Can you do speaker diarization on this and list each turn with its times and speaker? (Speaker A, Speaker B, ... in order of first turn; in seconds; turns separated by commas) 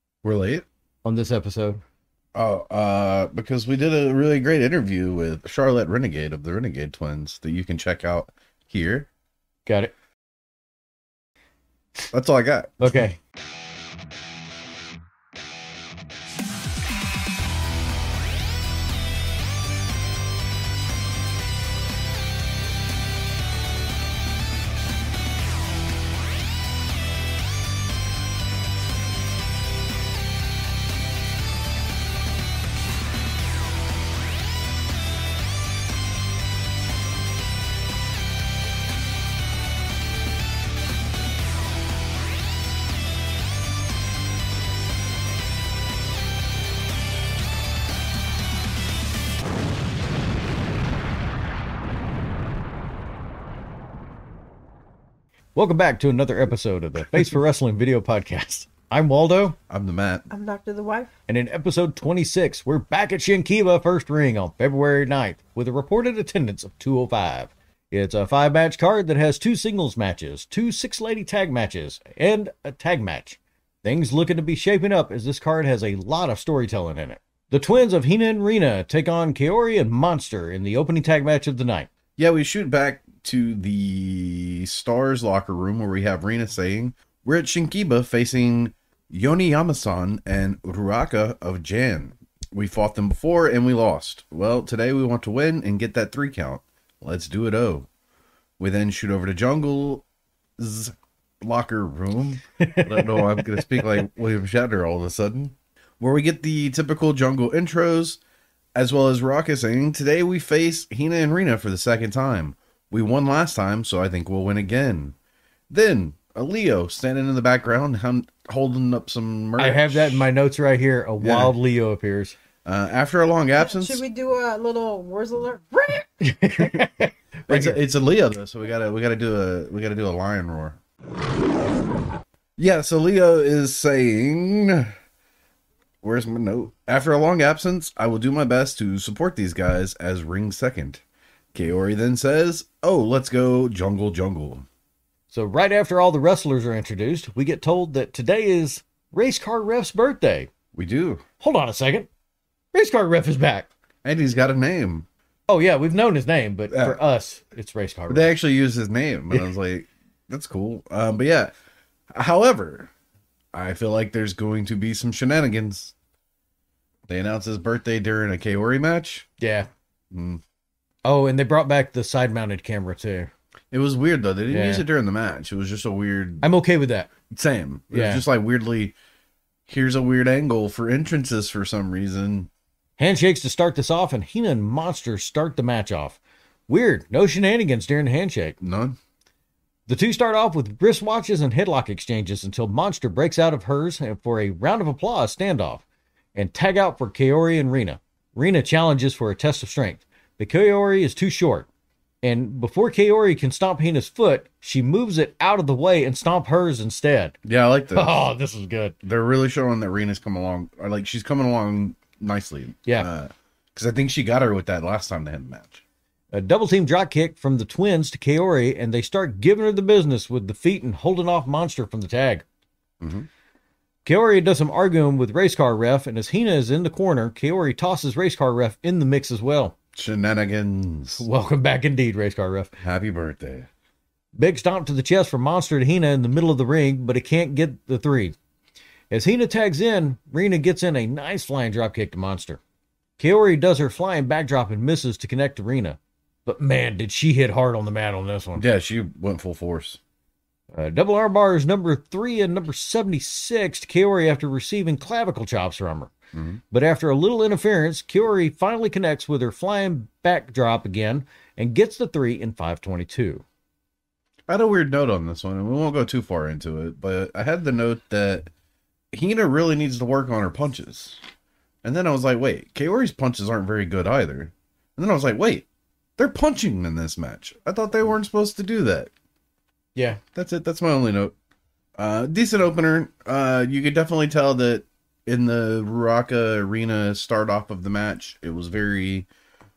Speaker A: 0.2-0.7, Speaker B: 1.0-1.8, Speaker A: 2.4-9.1, Speaker B: 9.7-9.9, Speaker A: 12.1-13.0, Speaker B: 12.8-13.2, Speaker B: 55.5-59.6, Speaker A: 59.7-60.3, Speaker C: 60.3-61.1, Speaker B: 61.3-81.9, Speaker A: 82.2-97.9, Speaker A: 98.6-100.0, Speaker A: 100.6-108.2, Speaker B: 102.6-103.8, Speaker A: 108.8-115.1, Speaker A: 115.7-120.3, Speaker B: 119.6-122.4, Speaker A: 121.2-121.5, Speaker A: 122.6-124.0, Speaker C: 123.6-126.1, Speaker B: 126.2-127.8, Speaker A: 126.6-126.9, Speaker A: 127.5-130.8, Speaker A: 132.6-134.9, Speaker A: 136.0-141.0, Speaker A: 141.5-144.7, Speaker B: 145.3-150.5, Speaker A: 150.7-151.2, Speaker B: 151.4-152.1, Speaker B: 152.7-153.7, Speaker A: 154.0-155.1, Speaker B: 155.5-158.3, Speaker A: 156.7-157.0, Speaker A: 158.1-161.5, Speaker A: 162.1-162.9, Speaker A: 163.5-165.9, Speaker A: 167.1-169.3, Speaker B: 169.4-169.7, Speaker A: 170.1-170.4, Speaker B: 171.0-173.3, Speaker A: 173.7-176.4, Speaker B: 174.5-174.8, Speaker B: 176.4-177.1, Speaker A: 177.3-178.9, Speaker B: 177.9-178.2, Speaker A: 179.7-182.5, Speaker B: 183.0-188.6, Speaker A: 188.6-189.0, Speaker B: 189.9-195.8, Speaker B: 196.3-201.7, Speaker B: 202.2-207.3, Speaker A: 207.4-208.3, Speaker B: 207.9-208.9, Speaker A: 209.0-215.8, Speaker B: 216.3-222.4, Speaker A: 223.0-223.3, Speaker B: 224.0-229.7, Speaker A: 229.9-231.2, Speaker B: 231.2-232.7, Speaker A: 232.8-233.7, Speaker B: 234.3-238.3, Speaker B: 239.1-242.6, Speaker B: 243.2-248.6, Speaker A: 248.6-250.0, Speaker B: 250.7-256.1, Speaker A: 256.3-256.6, Speaker B: 256.7-263.4, Speaker A: 264.5-268.5, Speaker A: 269.1-271.2, Speaker A: 271.8-275.6, Speaker A: 276.2-279.1, Speaker B: 279.9-280.2, Speaker A: 280.3-281.3, Speaker A: 282.0-289.3